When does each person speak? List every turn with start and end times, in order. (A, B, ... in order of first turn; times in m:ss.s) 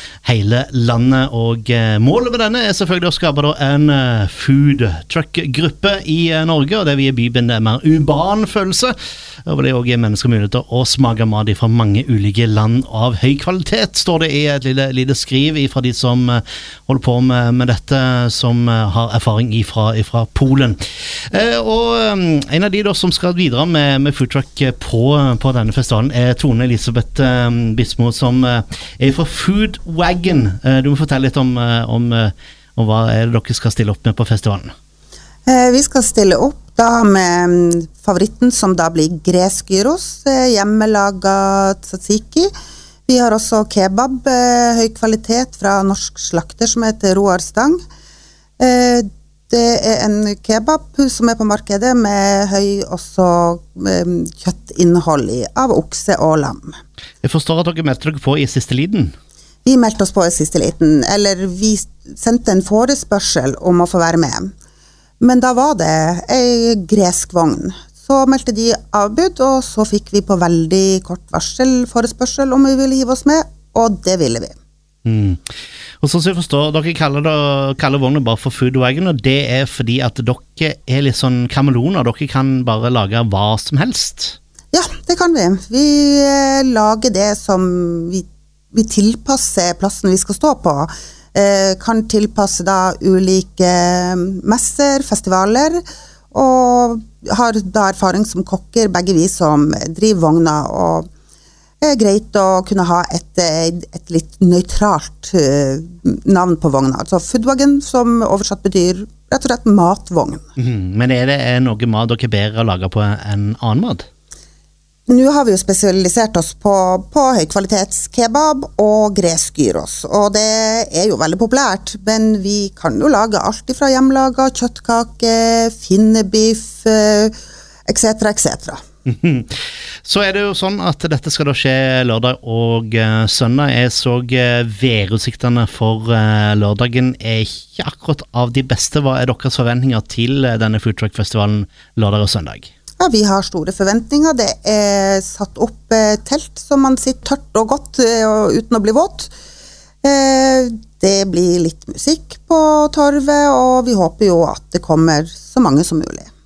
0:00.2-0:08.9 A
0:09.5-0:34.7 A
0:35.5-0:42.5 B
0:43.1-0:47.8 B
0:48.6-0:56.8 B
0:57.2-0:59.1 A
0:59.6-1:04.5 B
1:05.2-1:14.6 B
1:15.0-1:15.4 A
1:16.0-1:24.4 A
1:24.7-1:41.1 B
1:41.8-1:50.4 B
1:50.6-1:54.1 A
1:55.1-2:07.4 B
2:07.9-2:08.8 B
2:09.1-2:22.7 A
2:23.0-2:29.3 B
2:30.0-2:36.3 B